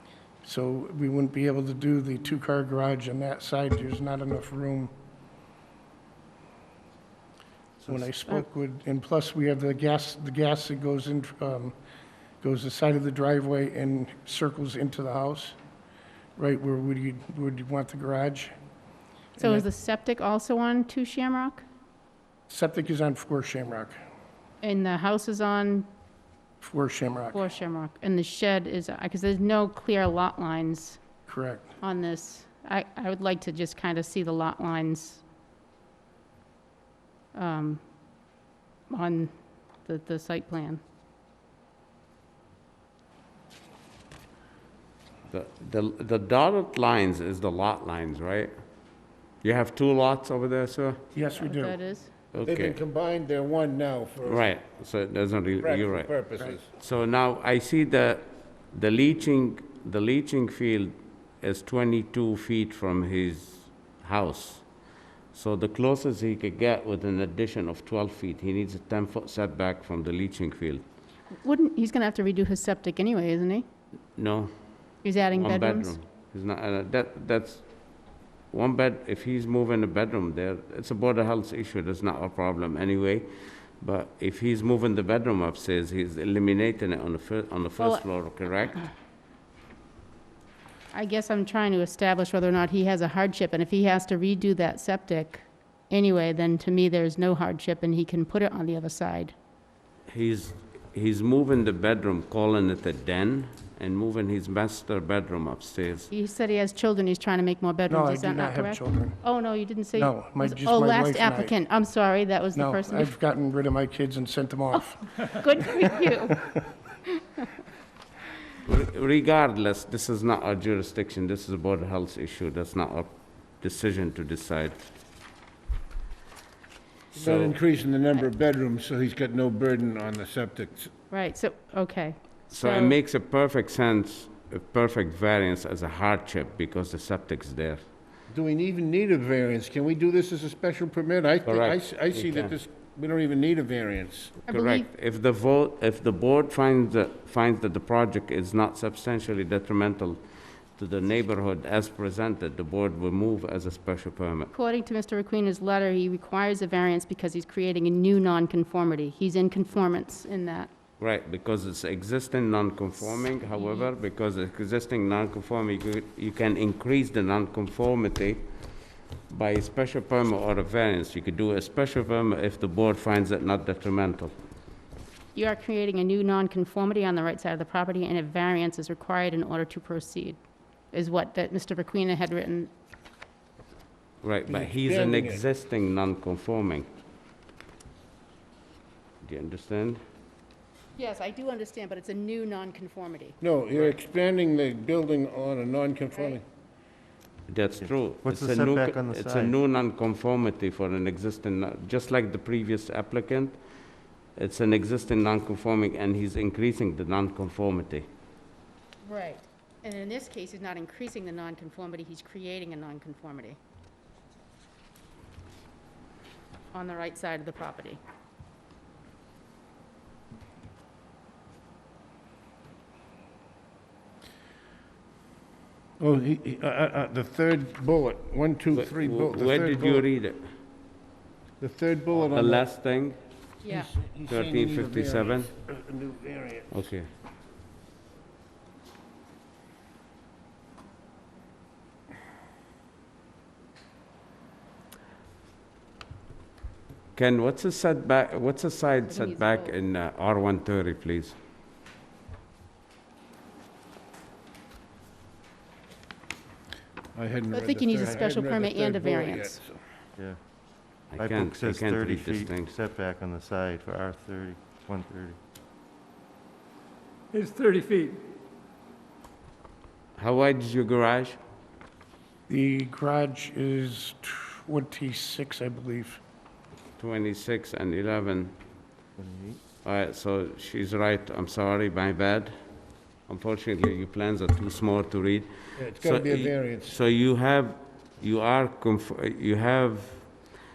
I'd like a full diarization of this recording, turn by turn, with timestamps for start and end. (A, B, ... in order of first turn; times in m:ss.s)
0:00.4-0:04.9 A
0:07.8-0:08.1 B
0:07.9-0:11.8 A
0:12.4-0:15.6 A
0:16.4-0:18.5 A
0:19.4-0:19.6 A
0:19.4-0:21.6 C
0:22.5-0:24.0 A
0:24.6-0:25.9 C
0:26.6-0:27.4 A
0:27.3-0:31.0 C
0:31.3-0:31.7 A
0:31.8-0:35.2 C
0:37.3-0:37.8 C
0:38.9-0:39.3 C
0:39.8-0:40.8 C
0:45.3-0:48.5 D
0:49.4-0:51.0 D
0:51.1-0:51.8 A
0:51.3-0:52.1 C
0:52.3-0:52.8 D
0:52.4-0:54.5 E
0:54.2-0:56.1 D
0:55.6-0:56.6 E
0:56.7-1:04.6 D
1:05.3-1:10.8 D
1:11.3-1:13.6 C
1:14.2-1:14.5 D
1:15.0-1:16.0 C
1:15.1-1:17.6 D
1:18.5-1:28.9 D
1:27.8-1:28.0 C
1:30.9-1:39.3 C
1:40.1-1:46.1 D
1:46.1-1:53.2 C
1:47.9-1:49.2 A
1:49.9-1:51.5 A
1:52.5-1:56.1 A
1:54.7-1:57.2 C
1:58.6-2:04.8 D
2:07.1-2:07.6 D
2:07.1-2:10.9 E
2:11.1-2:13.0 C
2:12.5-2:17.8 D
2:18.3-2:24.4 E
2:21.4-2:22.5 D
2:24.4-2:24.9 C
2:24.5-2:30.2 D
2:30.7-2:34.5 D
2:34.5-2:40.7 C
2:41.0-2:48.4 D
2:43.5-2:43.9 C
2:49.3-2:54.3 D
2:55.3-3:00.4 C
3:00.9-3:02.7 C
3:04.2-3:06.9 D
3:04.4-3:05.4 E
3:09.2-3:10.0 D
3:11.0-3:13.4 C
3:13.4-3:16.4 E
3:17.5-3:23.6 D
3:17.8-3:19.5 B
3:24.4-3:28.1 D
3:29.0-3:33.6 C
3:36.7-3:38.0 C
3:46.0-3:50.0 E
3:48.7-3:50.4 D
3:51.6-3:52.6 E
3:52.2-3:53.2 D
3:53.6-3:53.9 C
3:53.7-3:56.8 E
3:54.3-3:55.5 D
3:56.7-3:57.1 D
4:07.1-4:11.4 D
4:09.1-4:09.7 C
4:17.1-4:19.8 E
4:17.5-4:19.6 C
4:21.1-4:22.7 D
4:21.1-4:25.4 B
4:30.2-4:31.4 D
4:32.5-4:36.2 A
4:37.0-4:38.5 D
4:39.2-4:39.6 B
4:39.8-4:42.5 D
4:43.3-4:50.3 D
4:45.8-4:47.0 E